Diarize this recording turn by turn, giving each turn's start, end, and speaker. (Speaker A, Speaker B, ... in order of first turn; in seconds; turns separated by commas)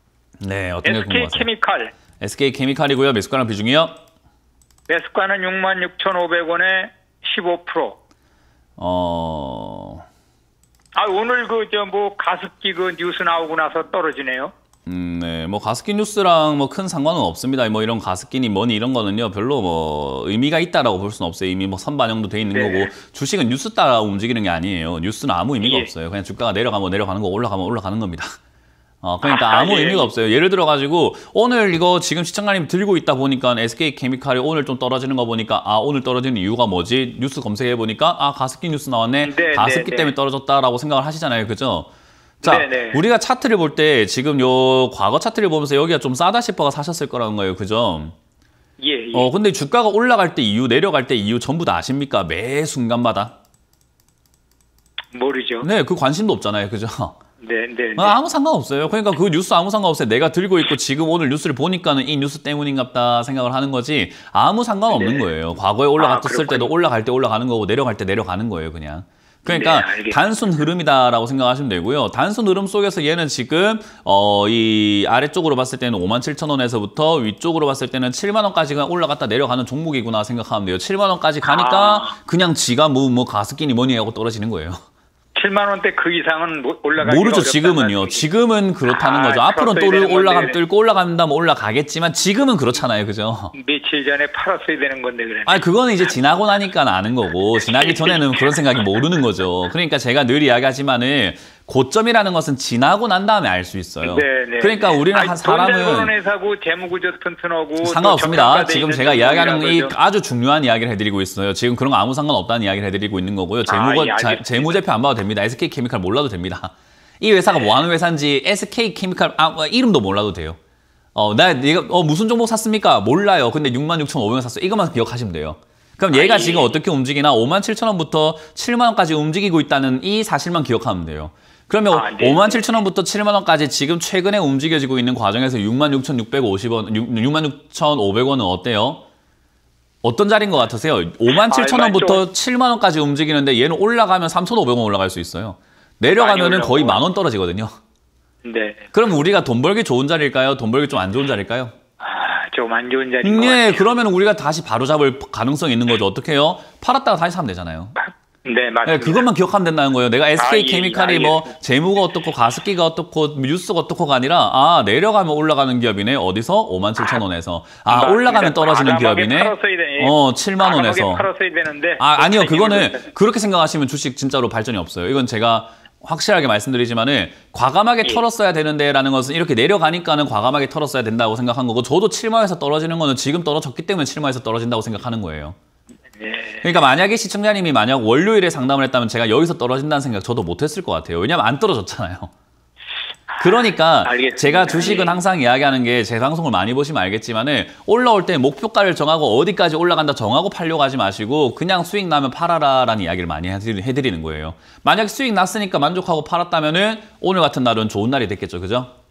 Speaker A: 0.4-1.5, Speaker B: 0.8-1.9, Speaker A: 2.2-3.9, Speaker B: 4.9-8.0, Speaker A: 8.8-10.1, Speaker B: 11.0-14.5, Speaker A: 14.9-28.3, Speaker B: 22.5-22.9, Speaker B: 25.6-25.9, Speaker A: 29.0-41.9, Speaker B: 29.2-30.1, Speaker B: 39.2-40.1, Speaker A: 42.4-48.1, Speaker B: 42.4-43.0, Speaker B: 48.8-49.3, Speaker A: 49.1-53.3, Speaker B: 55.1-55.7, Speaker A: 55.6-57.2, Speaker B: 57.4-58.2, Speaker A: 58.0-84.8, Speaker B: 64.9-65.3, Speaker B: 66.0-66.7, Speaker B: 69.5-70.4, Speaker B: 81.4-82.2, Speaker B: 85.3-88.3, Speaker A: 87.0-93.5, Speaker B: 88.9-90.6, Speaker B: 93.5-95.7, Speaker A: 95.5-106.1, Speaker B: 97.6-98.5, Speaker B: 104.0-110.0, Speaker A: 107.8-120.6, Speaker B: 113.7-114.8, Speaker B: 117.5-117.8, Speaker A: 121.2-139.0, Speaker B: 126.1-126.7, Speaker B: 131.9-132.7, Speaker A: 140.0-147.7, Speaker B: 141.4-142.3, Speaker B: 146.1-147.0, Speaker B: 148.4-148.9, Speaker A: 148.9-151.7, Speaker B: 152.0-153.9, Speaker A: 153.2-158.0, Speaker B: 158.1-159.3, Speaker A: 158.9-171.3, Speaker B: 160.4-161.5, Speaker B: 167.9-173.1, Speaker A: 172.0-185.6, Speaker B: 186.2-186.8, Speaker A: 186.6-192.3, Speaker A: 193.4-208.9, Speaker B: 194.1-195.2